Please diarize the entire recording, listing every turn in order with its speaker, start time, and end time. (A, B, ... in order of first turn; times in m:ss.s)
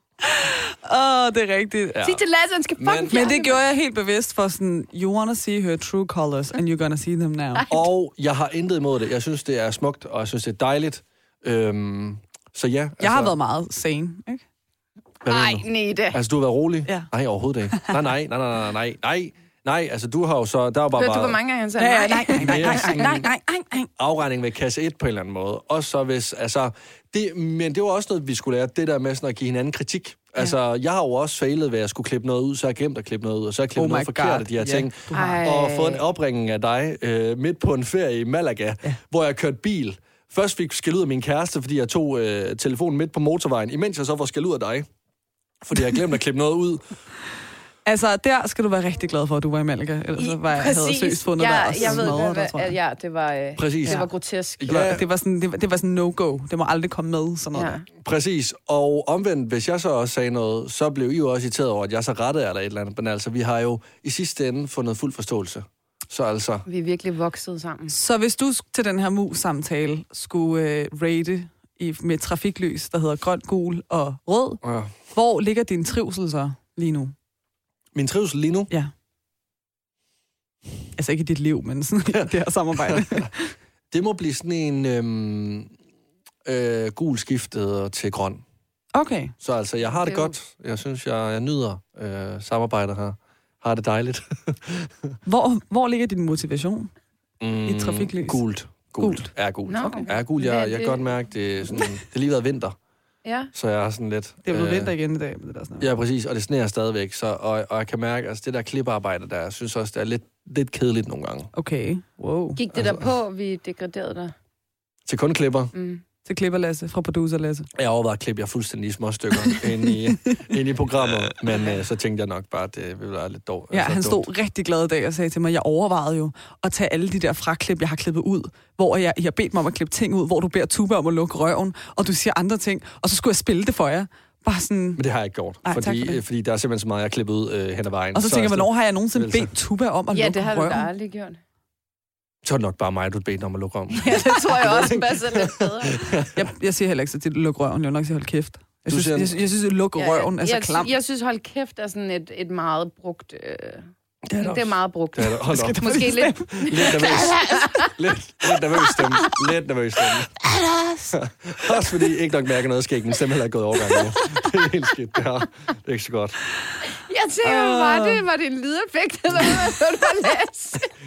0:00.2-0:02.1 A
0:01.9-0:02.2 B
0:02.0-0:03.6 C
0:02.8-0:03.2 B
0:03.1-0:07.6 A
0:07.6-0:07.8 C
0:07.7-0:13.3 B
0:13.0-0:14.4 A
0:15.2-0:21.4 B
0:15.3-0:16.2 C
0:17.7-0:18.0 A
0:20.9-0:23.2 C
0:21.8-0:23.9 A
0:22.4-0:23.3 B
0:24.0-0:44.9 B
0:33.8-0:35.4 A
0:35.1-0:36.0 C
0:45.6-0:46.9 B
0:47.8-0:52.7 A
0:50.2-0:54.9 C
0:51.8-0:52.2 B
0:53.6-0:54.0 B
0:54.6-0:55.0 B
0:54.6-0:57.8 A
0:57.5-0:57.8 C
0:58.0-1:06.6 B
1:06.6-1:07.9 C
1:07.9-1:17.1 A
1:14.6-1:14.9 B
1:17.9-1:18.7 B
1:21.0-1:23.5 A
1:22.8-1:23.3 B
1:23.9-1:25.7 B
1:26.4-1:28.4 B
1:28.9-1:29.3 A
1:29.4-1:35.2 B
1:30.0-1:30.3 C
1:35.2-1:36.9 A
1:37.4-1:42.8 B
1:37.6-1:39.3 A
1:39.7-1:41.0 C
1:43.2-1:43.5 C
1:43.5-1:44.9 B
1:44.4-1:45.9 A
1:45.8-1:51.5 B
1:51.5-1:52.6 A
1:52.6-1:54.3 C
1:52.7-1:53.1 B
1:55.0-1:55.7 B
1:55.7-1:56.0 C
1:56.2-1:57.7 A
1:57.7-2:04.2 B
2:03.7-2:15.0 A
2:15.0-2:19.5 B
2:15.6-2:16.2 A
2:18.1-2:20.9 A
2:20.1-2:21.4 C
2:22.4-2:26.4 B
2:23.9-2:26.0 C
2:26.3-2:30.9 A
2:28.9-2:29.3 B
2:30.0-2:37.9 C
2:34.2-2:36.0 B
2:35.5-2:37.7 A
2:36.6-2:40.4 B
2:40.5-2:41.1 A
2:41.1-2:46.4 B
2:47.0-2:50.9 C
2:47.4-2:48.2 A